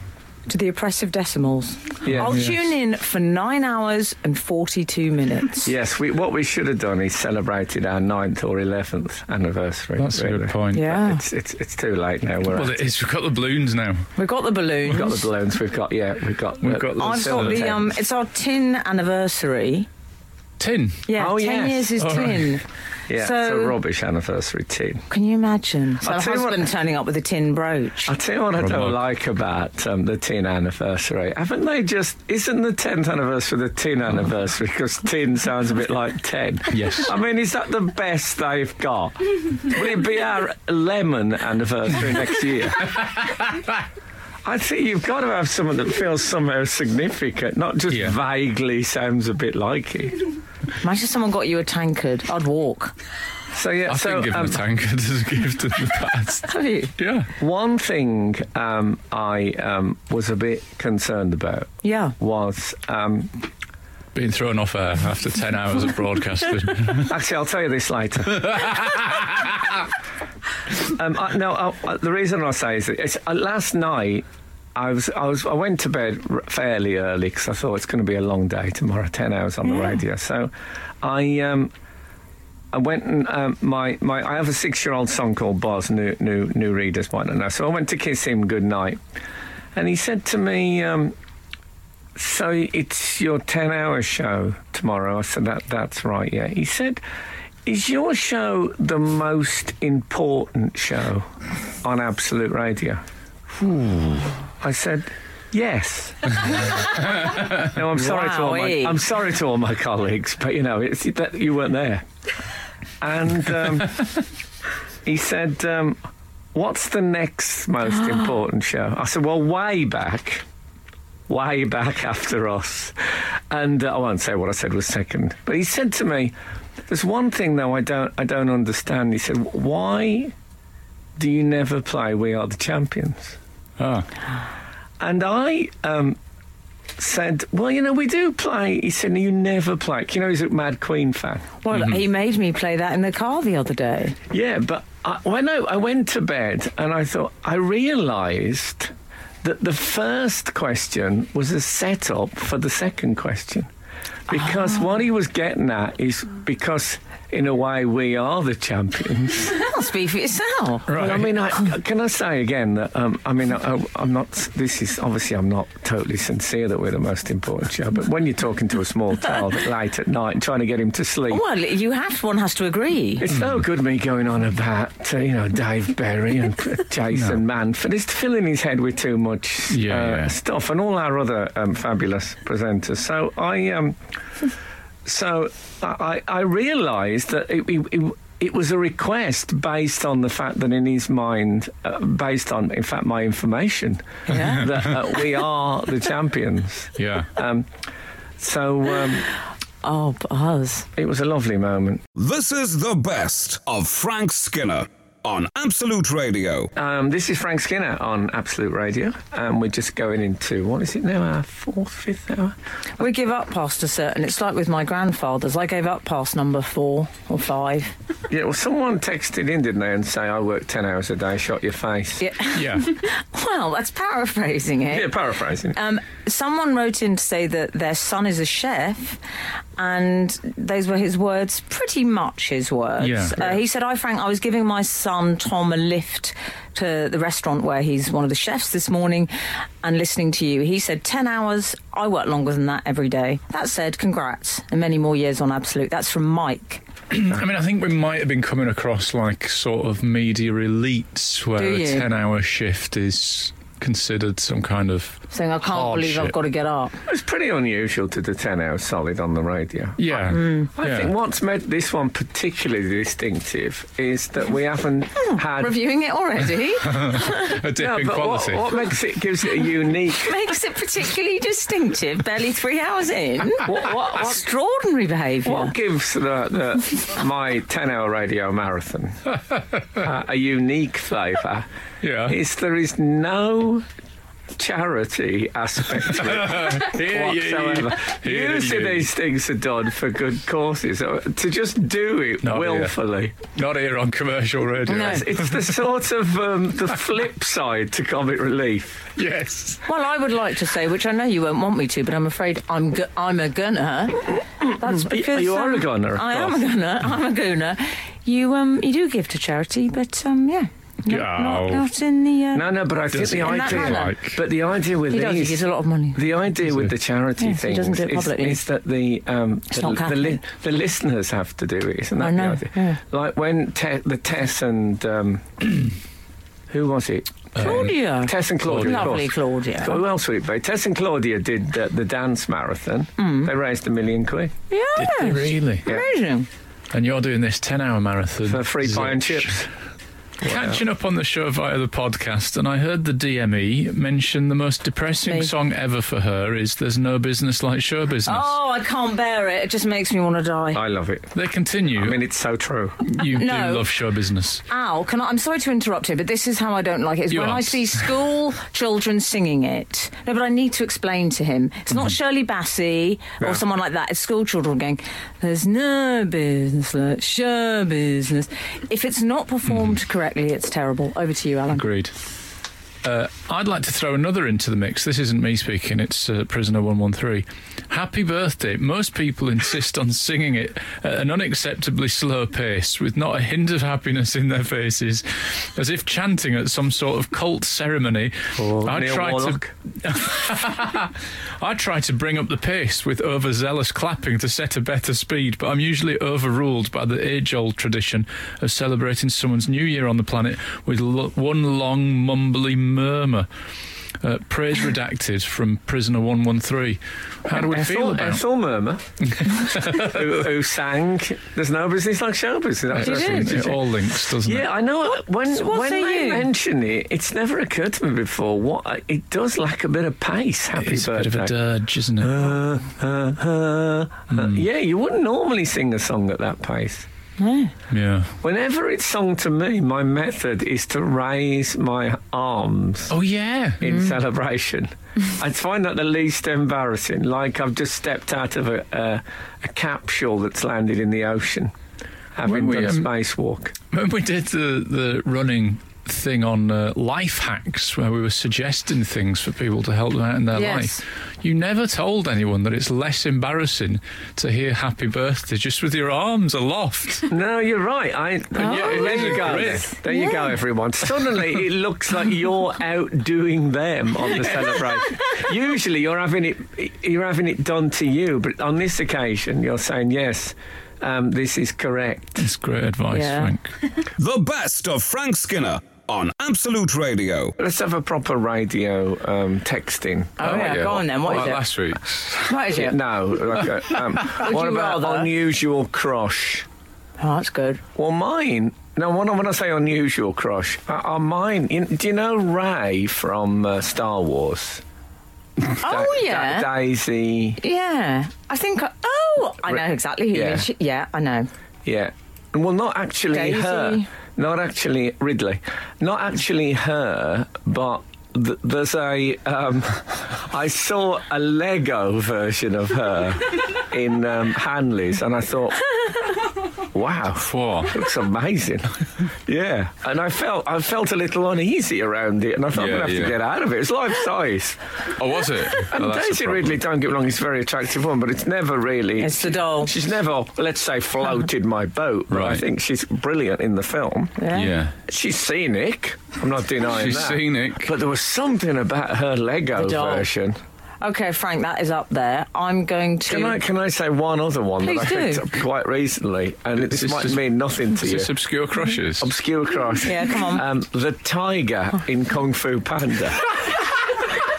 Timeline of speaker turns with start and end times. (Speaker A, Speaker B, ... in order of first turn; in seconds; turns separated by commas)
Speaker A: 0.5-5.7, Speaker B: 2.0-2.4, Speaker C: 2.1-2.6, Speaker B: 5.6-12.8, Speaker C: 10.0-11.0, Speaker A: 10.7-11.2, Speaker C: 12.5-14.1, Speaker A: 14.2-15.2, Speaker B: 14.8-17.9, Speaker C: 16.6-17.7, Speaker A: 16.9-19.9, Speaker C: 20.6-21.1, Speaker A: 21.1-22.6, Speaker B: 21.1-22.0, Speaker C: 22.0-22.6, Speaker B: 23.1-25.1, Speaker A: 23.1-23.8, Speaker A: 25.1-28.1, Speaker B: 26.0-26.7, Speaker B: 28.1-43.0, Speaker C: 28.6-29.0, Speaker C: 36.7-37.1, Speaker B: 44.4-50.2, Speaker C: 47.9-48.1, Speaker A: 50.8-52.9, Speaker B: 53.5-54.6, Speaker C: 53.9-57.3, Speaker A: 56.5-56.9, Speaker B: 57.4-63.4, Speaker A: 61.8-62.1, Speaker C: 64.1-67.1, Speaker B: 67.0-68.8, Speaker C: 68.4-69.5, Speaker B: 70.8-81.7, Speaker B: 82.7-89.0, Speaker B: 89.7-91.1, Speaker B: 92.1-97.0, Speaker B: 97.6-101.3, Speaker B: 101.8-103.0, Speaker B: 103.6-112.0, Speaker A: 107.9-109.0, Speaker B: 113.0-114.2, Speaker B: 115.0-116.0, Speaker B: 116.5-120.4, Speaker B: 121.3-126.3, Speaker B: 126.9-130.3, Speaker B: 131.2-133.4, Speaker C: 133.8-134.1, Speaker B: 135.0-136.2, Speaker B: 137.0-141.5, Speaker A: 141.6-144.2, Speaker C: 141.7-142.0, Speaker B: 144.3-153.7, Speaker B: 154.3-159.6, Speaker A: 159.6-160.9, Speaker C: 160.9-161.3, Speaker B: 160.9-171.4, Speaker A: 171.3-173.3, Speaker B: 173.2-184.0, Speaker C: 173.3-173.6, Speaker C: 177.1-177.4, Speaker C: 179.7-180.3, Speaker B: 185.0-197.7, Speaker A: 194.3-194.7, Speaker C: 197.0-197.3, Speaker B: 198.4-199.3, Speaker A: 199.8-200.9, Speaker B: 200.9-202.0, Speaker D: 202.2-206.7, Speaker B: 206.7-212.5, Speaker A: 213.0-217.9, Speaker B: 218.3-222.2, Speaker A: 222.2-225.2, Speaker C: 222.5-222.9, Speaker B: 224.9-225.8, Speaker A: 225.7-229.2, Speaker A: 229.8-239.3, Speaker C: 233.0-233.5, Speaker A: 239.8-246.8, Speaker C: 247.1-256.4, Speaker A: 251.6-252.1, Speaker A: 255.3-257.0, Speaker B: 257.1-265.8, Speaker C: 260.0-261.1, Speaker A: 260.3-260.7, Speaker A: 265.2-267.6, Speaker C: 266.9-268.8, Speaker B: 267.7-270.4, Speaker A: 270.1-275.7, Speaker B: 273.6-274.4, Speaker B: 275.4-279.2, Speaker B: 279.9-281.7, Speaker C: 282.0-282.4, Speaker B: 282.2-283.9, Speaker B: 284.5-293.3, Speaker C: 286.2-289.1, Speaker C: 292.4-295.7, Speaker B: 294.9-299.1, Speaker C: 299.1-299.8, Speaker A: 299.9-312.7, Speaker B: 304.8-306.6, Speaker C: 311.1-311.9, Speaker B: 312.5-325.9, Speaker C: 313.1-314.4, Speaker A: 313.4-314.1, Speaker A: 315.1-316.4, Speaker C: 316.6-316.9, Speaker A: 317.4-318.6, Speaker A: 319.7-320.4, Speaker A: 322.2-323.0, Speaker B: 326.7-334.5, Speaker C: 327.5-327.9, Speaker A: 327.6-330.0, Speaker C: 328.6-329.2, Speaker A: 333.2-333.5, Speaker A: 334.7-336.5, Speaker C: 334.9-335.9, Speaker C: 336.9-339.6, Speaker B: 338.4-339.7, Speaker B: 340.4-340.8, Speaker C: 340.4-348.6, Speaker A: 345.2-345.5, Speaker A: 348.2-350.8, Speaker B: 350.7-351.3, Speaker C: 351.3-352.2, Speaker B: 351.9-353.0, Speaker C: 353.0-354.6, Speaker A: 353.2-353.9, Speaker A: 354.7-371.9, Speaker C: 357.3-358.1, Speaker C: 371.7-372.1, Speaker C: 373.0-403.5, Speaker B: 388.6-389.7, Speaker C: 404.2-408.4, Speaker B: 407.5-421.5, Speaker C: 409.3-410.1, Speaker C: 412.9-414.7, Speaker A: 413.0-413.5, Speaker A: 415.4-416.5, Speaker C: 420.7-422.5, Speaker B: 422.2-427.1, Speaker C: 424.3-424.6, Speaker A: 427.4-427.7, Speaker C: 427.9-428.3, Speaker B: 428.4-433.1, Speaker C: 433.1-433.9, Speaker B: 433.8-441.7, Speaker B: 442.3-443.7, Speaker C: 442.4-443.1, Speaker C: 443.9-457.3, Speaker A: 450.5-451.0, Speaker B: 457.3-472.5, Speaker C: 458.6-459.9, Speaker A: 458.6-460.5, Speaker C: 472.4-473.7, Speaker A: 473.1-473.5, Speaker D: 474.2-477.5, Speaker B: 477.6-481.4, Speaker A: 480.4-481.6, Speaker C: 480.4-482.6, Speaker A: 482.4-483.0, Speaker B: 482.7-486.7, Speaker A: 484.2-485.3, Speaker A: 487.2-487.8, Speaker B: 487.9-494.8, Speaker B: 495.6-497.6, Speaker A: 495.8-496.7, Speaker A: 497.6-501.5, Speaker B: 500.3-500.7, Speaker B: 501.8-515.9, Speaker A: 503.3-504.1, Speaker B: 516.9-524.8, Speaker C: 517.5-517.9, Speaker C: 522.7-523.4, Speaker C: 525.2-526.8, Speaker B: 525.8-534.4, Speaker A: 529.2-529.9, Speaker C: 532.3-532.6, Speaker A: 534.4-534.7, Speaker C: 534.5-535.0, Speaker B: 535.0-540.6, Speaker C: 536.9-537.9, Speaker A: 539.8-540.3, Speaker A: 541.0-543.6, Speaker B: 543.3-548.3, Speaker A: 544.8-545.5, Speaker C: 546.8-549.3, Speaker B: 549.2-553.5, Speaker A: 550.0-550.6